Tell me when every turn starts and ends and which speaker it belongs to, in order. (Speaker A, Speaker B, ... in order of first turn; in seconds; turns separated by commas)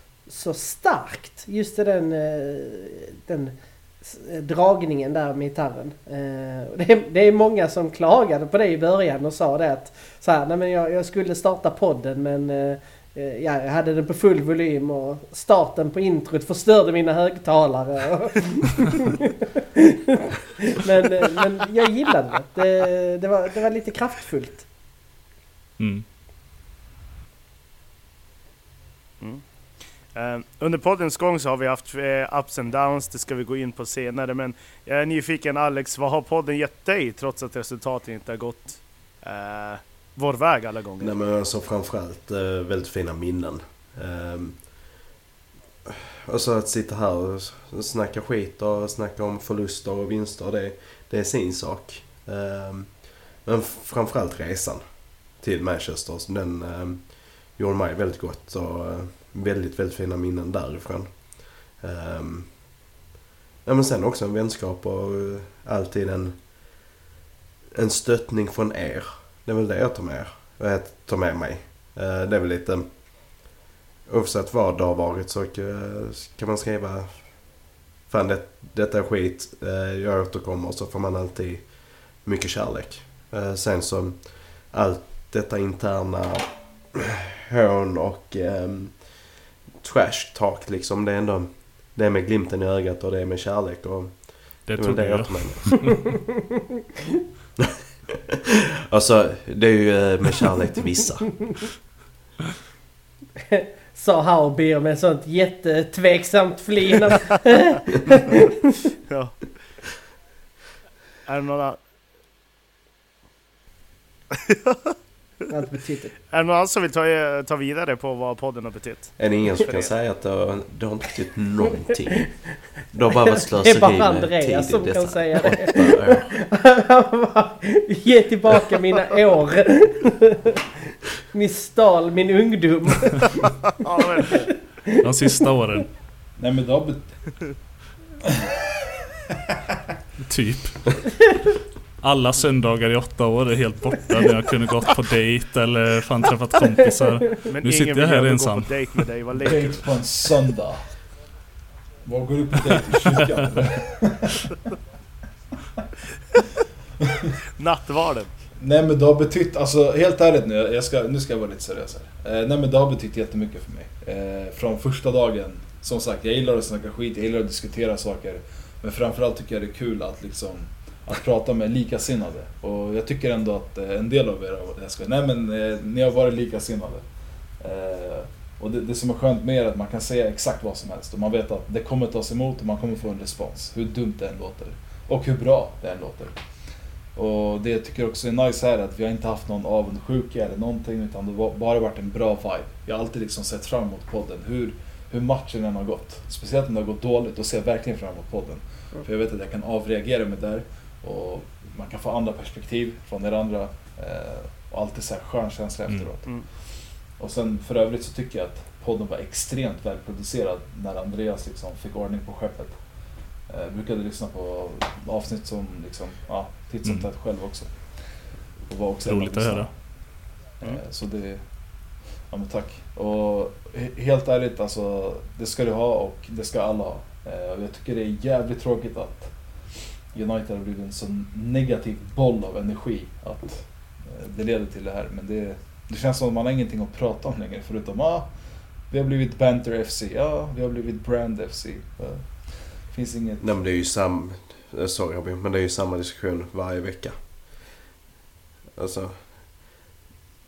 Speaker A: 0.3-19.0, Speaker A: 20.7-24.6, Speaker B: 25.8-26.1, Speaker C: 29.2-29.4, Speaker C: 30.1-41.1, Speaker D: 41.0-44.9, Speaker D: 45.9-62.6, Speaker D: 63.6-66.5, Speaker D: 67.7-73.0, Speaker D: 74.1-95.9, Speaker B: 94.7-96.0, Speaker D: 98.9-101.3, Speaker A: 103.5-107.9, Speaker C: 109.1-109.6, Speaker C: 111.2-111.8, Speaker C: 114.3-114.8, Speaker A: 115.5-116.1, Speaker C: 116.3-119.9, Speaker D: 119.2-122.3, Speaker D: 122.9-126.3, Speaker A: 123.5-130.4, Speaker A: 131.3-133.4, Speaker C: 133.7-134.5, Speaker B: 135.0-135.9, Speaker E: 136.4-137.1, Speaker B: 140.2-141.0, Speaker B: 142.0-149.0, Speaker C: 147.5-149.9, Speaker E: 149.3-150.9, Speaker E: 152.0-154.3, Speaker C: 157.6-158.3, Speaker E: 158.6-186.4, Speaker E: 187.1-212.8, Speaker E: 213.5-219.9, Speaker B: 219.0-219.7, Speaker E: 220.6-221.5, Speaker E: 222.3-238.3, Speaker E: 238.9-243.5, Speaker D: 243.4-247.2, Speaker D: 248.8-249.5